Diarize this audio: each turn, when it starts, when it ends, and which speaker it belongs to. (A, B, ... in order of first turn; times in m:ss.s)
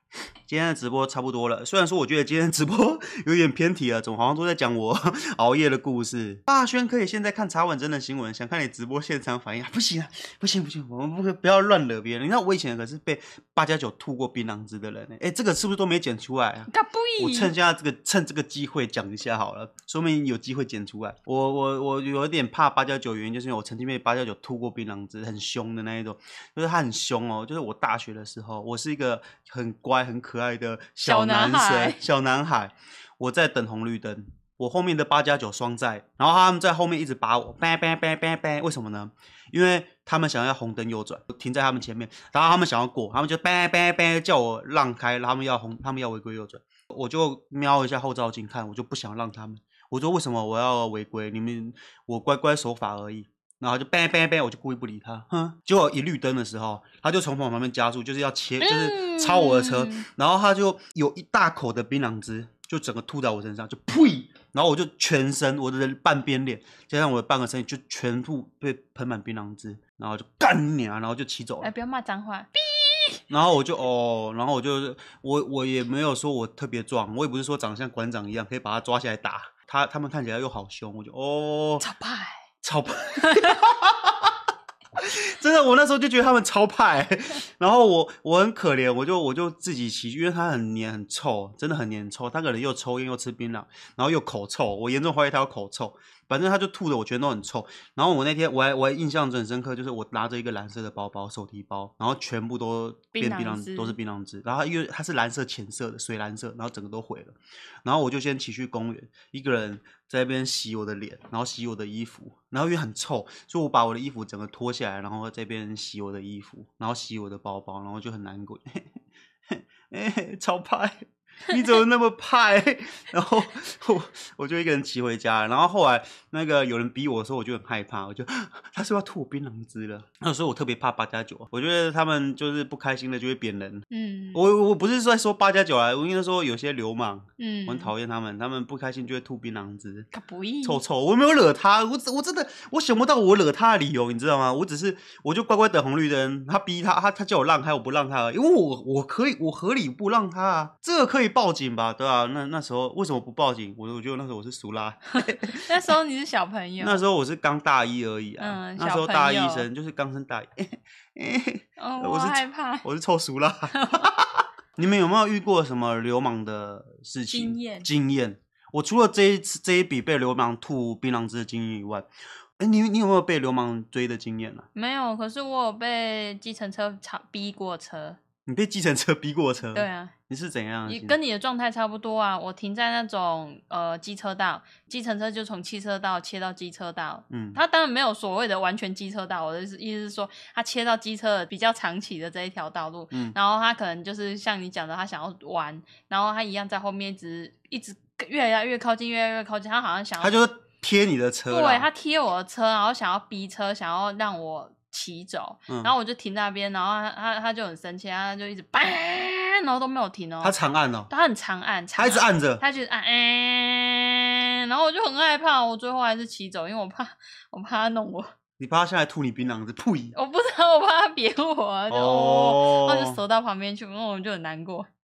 0:00.5-1:11.7 A
0:16.7-0:17.5 B
0:31.0-0:32.0 B
0:58.6-1:00.0 B
1:11.6-1:13.2 B
1:13.3-1:21.9 A
1:21.8-1:22.4 B
1:22.6-1:24.4 A
1:23.2-1:23.6 B
1:25.0-1:58.9 A
1:43.1-1:44.0 B
1:59.5-2:20.1 A
2:13.9-2:14.4 B
2:17.4-2:17.9 B
2:20.1-2:20.8 B
2:20.6-2:35.9 A
2:35.5-2:37.0 B
2:36.8-2:52.1 A
2:38.4-2:39.7 B
2:41.8-2:42.9 B
2:43.7-2:44.1 B
2:47.3-2:47.9 B
2:52.6-2:54.7 A
2:54.8-2:58.2 B
2:58.5-3:01.2 A
2:59.8-3:00.1 B
3:00.9-3:20.4 B
3:07.3-3:07.6 A
3:20.2-3:21.9 A
3:21.5-3:30.6 B
3:30.4-3:31.1 A
3:31.1-3:38.3 B
3:32.0-3:32.6 A
3:38.6-3:40.2 A
3:40.1-3:44.9 B
3:41.9-3:43.2 A